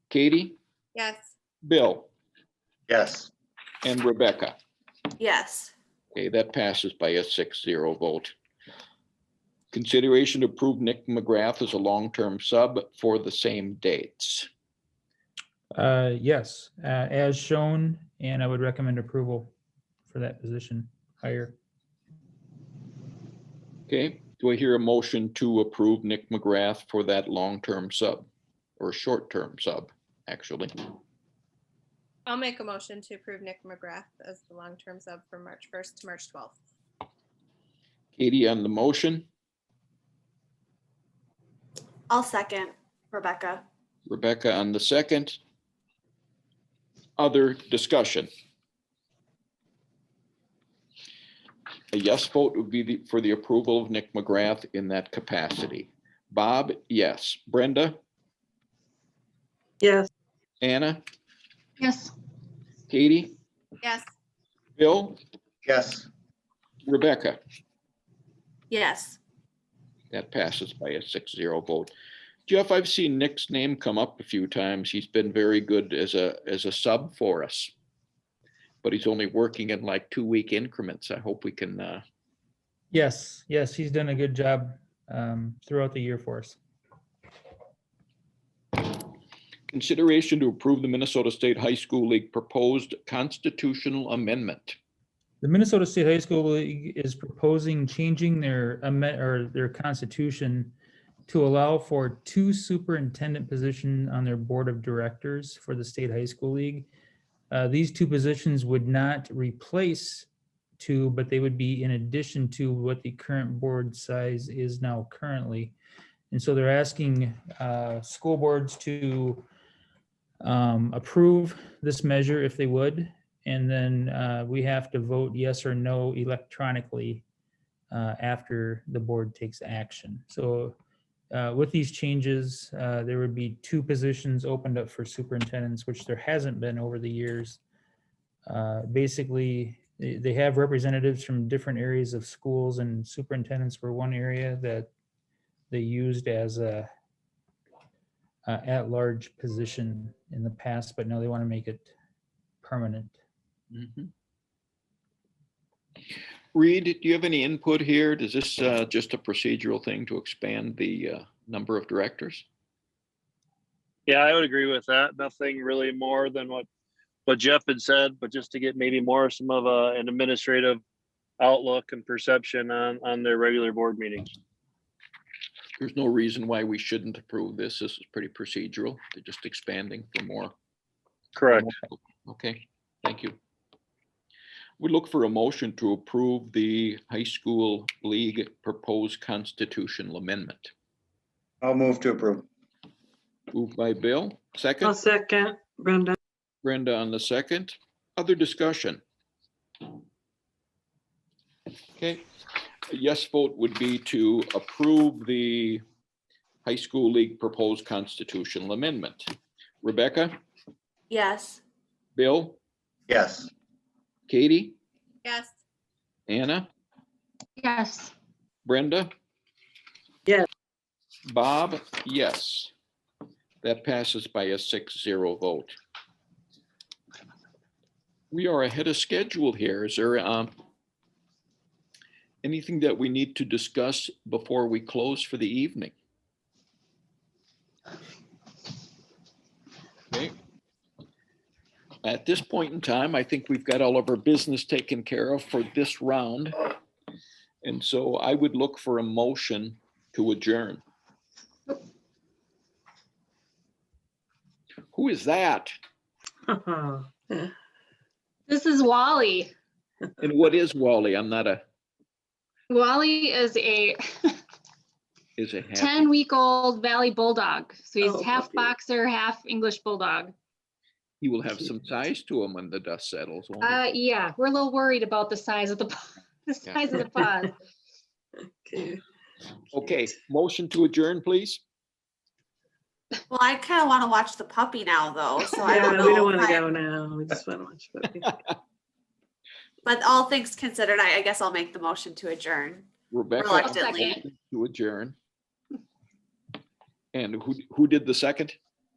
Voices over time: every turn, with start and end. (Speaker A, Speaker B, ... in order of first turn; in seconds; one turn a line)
Speaker A: 0.1-0.6
Speaker B: 0.9-1.3
Speaker A: 1.6-2.1
Speaker C: 2.9-3.3
Speaker A: 3.8-4.6
Speaker D: 5.2-5.7
Speaker A: 6.1-8.3
Speaker A: 9.7-14.5
Speaker E: 15.7-19.5
Speaker E: 20.1-21.6
Speaker A: 23.9-28.3
Speaker A: 28.8-30.7
Speaker B: 32.2-36.5
Speaker A: 38.2-39.3
Speaker D: 42.1-43.6
Speaker A: 44.1-45.4
Speaker A: 47.2-48.3
Speaker A: 51.9-58.0
Speaker F: 59.8-60.1
Speaker A: 60.6-61.0
Speaker G: 61.8-62.1
Speaker A: 62.9-63.4
Speaker B: 63.8-64.1
Speaker A: 64.8-65.2
Speaker C: 65.6-66.1
Speaker A: 66.9-67.4
Speaker D: 68.7-69.2
Speaker A: 70.1-71.9
Speaker A: 72.5-77.7
Speaker A: 78.8-82.0
Speaker E: 82.9-86.6
Speaker A: 89.7-94.8
Speaker E: 95.4-100.7
Speaker E: 101.3-106.9
Speaker E: 107.5-110.3
Speaker E: 110.8-115.7
Speaker E: 116.3-119.5
Speaker E: 120.4-127.2
Speaker E: 127.9-130.8
Speaker E: 131.3-137.6
Speaker E: 138.4-144.9
Speaker E: 145.7-146.9
Speaker E: 148.4-151.9
Speaker E: 152.6-153.2
Speaker A: 153.7-154.1
Speaker A: 156.5-162.5
Speaker H: 164.1-166.7
Speaker H: 167.3-170.8
Speaker H: 171.4-174.3
Speaker A: 175.8-180.5
Speaker H: 181.3-181.6
Speaker A: 181.6-183.4
Speaker A: 184.8-190.7
Speaker C: 191.6-192.4
Speaker A: 193.5-194.9
Speaker F: 194.8-196.2
Speaker A: 196.6-199.0
Speaker A: 201.9-202.3
Speaker A: 202.9-205.8
Speaker A: 206.6-210.4
Speaker D: 211.1-211.6
Speaker A: 212.2-212.6
Speaker C: 213.1-213.5
Speaker A: 214.3-214.8
Speaker B: 215.2-215.5
Speaker A: 216.3-216.7
Speaker G: 217.6-218.1
Speaker A: 218.6-219.1
Speaker A: 221.3-222.7
Speaker A: 223.6-225.8
Speaker A: 228.3-230.5
Speaker A: 232.4-235.9
Speaker A: 240.1-240.3
Speaker A: 242.0-246.6
Speaker A: 247.6-250.8
Speaker A: 254.9-255.7
Speaker F: 256.5-257.5
Speaker G: 258.5-259.5
Speaker A: 260.2-261.6
Speaker G: 262.7-264.4
Speaker A: 265.4-266.2
Speaker G: 265.7-270.3
Speaker F: 268.0-268.7
Speaker A: 271.2-273.8
Speaker G: 273.6-277.5
Speaker F: 276.9-277.2
Speaker F: 278.6-279.0
Speaker A: 279.7-281.6
Speaker D: 283.3-286.6
Speaker F: 285.6-288.3
Speaker D: 289.8-294.2
Speaker A: 293.1-295.1
Speaker G: 293.6-294.2
Speaker A: 297.1-298.6